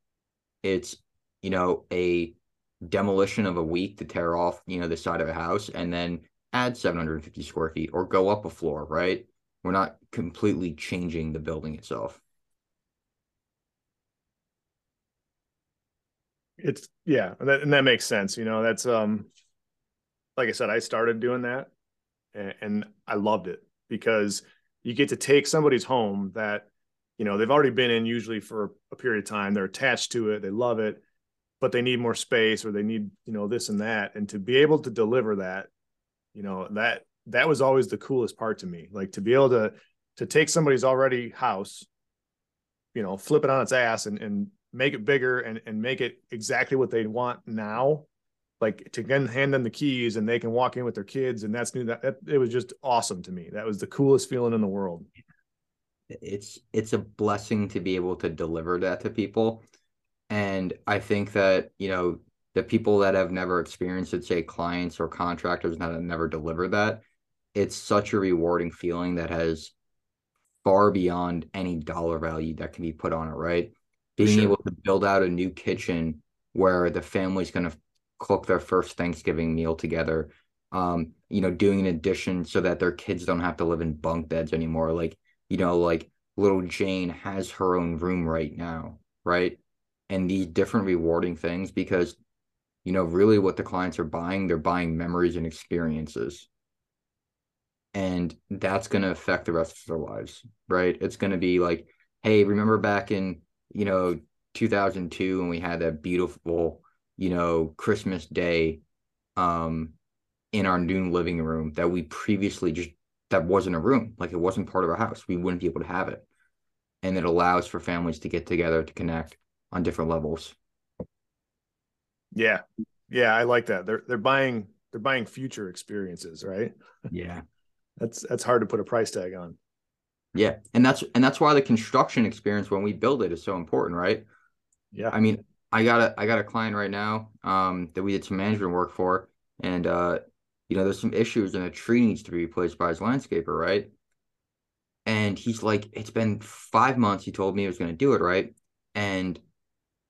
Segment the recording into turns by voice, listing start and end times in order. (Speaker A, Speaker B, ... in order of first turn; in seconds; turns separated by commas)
Speaker A: 0.6-12.2, Speaker B: 16.6-19.3, Speaker B: 20.4-21.7, Speaker B: 22.3-26.7, Speaker B: 27.2-31.0, Speaker B: 31.6-35.7, Speaker B: 36.4-41.9, Speaker B: 43.0-48.1, Speaker B: 48.6-55.1, Speaker A: 56.1-59.6, Speaker A: 60.3-67.0, Speaker A: 67.5-69.7, Speaker A: 70.6-89.6, Speaker B: 74.2-74.6, Speaker A: 90.1-92.2, Speaker A: 92.8-96.5, Speaker A: 97.9-108.8, Speaker A: 109.4-109.9, Speaker A: 110.5-116.2, Speaker A: 117.0-120.6, Speaker B: 122.3-126.7, Speaker A: 127.1-127.5, Speaker B: 128.0-129.6, Speaker A: 130.3-134.3, Speaker A: 135.1-143.9, Speaker A: 145.1-149.4